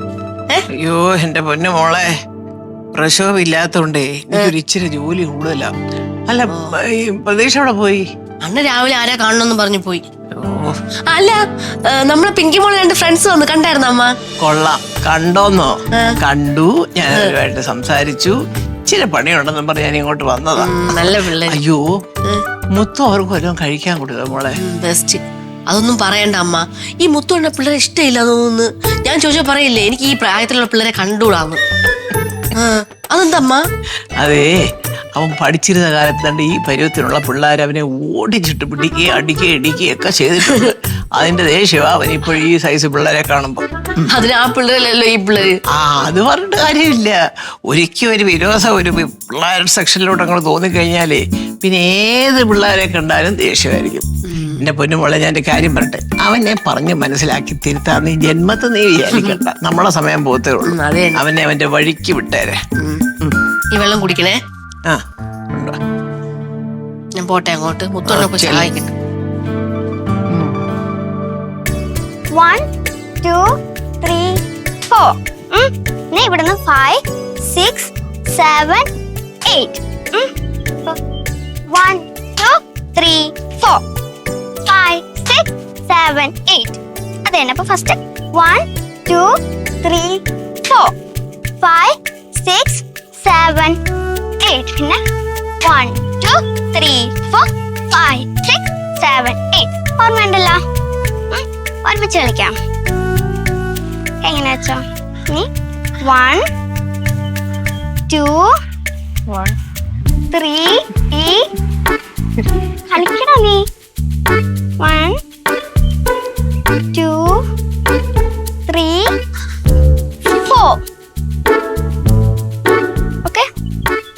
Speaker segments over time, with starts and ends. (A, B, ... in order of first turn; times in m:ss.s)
0:00.7-0:02.1 A
0:02.9-0:05.7 A
0:06.3-0:08.0 A
0:08.4-0:10.0 B
0:10.3-0:10.8 A
0:11.1-0:14.1 B
0:14.4-0:21.8 A
0:20.6-0:21.6 B
0:22.7-0:24.6 A
0:24.6-0:31.6 B
0:32.6-0:33.6 B
0:34.2-0:34.5 A
0:35.1-0:43.6 A
0:44.1-0:45.6 B
0:45.7-0:47.2 A
0:47.7-1:02.6 A
0:59.1-0:59.4 B
1:00.6-1:01.2 B
1:02.8-1:03.0 B
1:03.7-1:04.4 B
1:07.2-1:08.9 B
1:08.0-1:08.7 A
1:12.3-1:12.6 C
1:13.2-1:18.9 C
1:19.4-1:20.3 C
1:21.7-1:23.8 C
1:24.7-1:30.9 C
1:31.6-1:33.8 C
1:34.4-1:35.0 C
1:35.6-1:40.6 C
1:41.3-1:42.5 C
1:44.2-1:45.5 C
1:46.0-1:46.4 C
1:48.1-1:48.5 C
1:50.3-1:51.4 C
1:52.9-1:53.6 C
1:54.8-1:55.2 C
1:56.9-1:57.4 C
1:58.7-1:59.1 C
2:00.4-2:00.8 C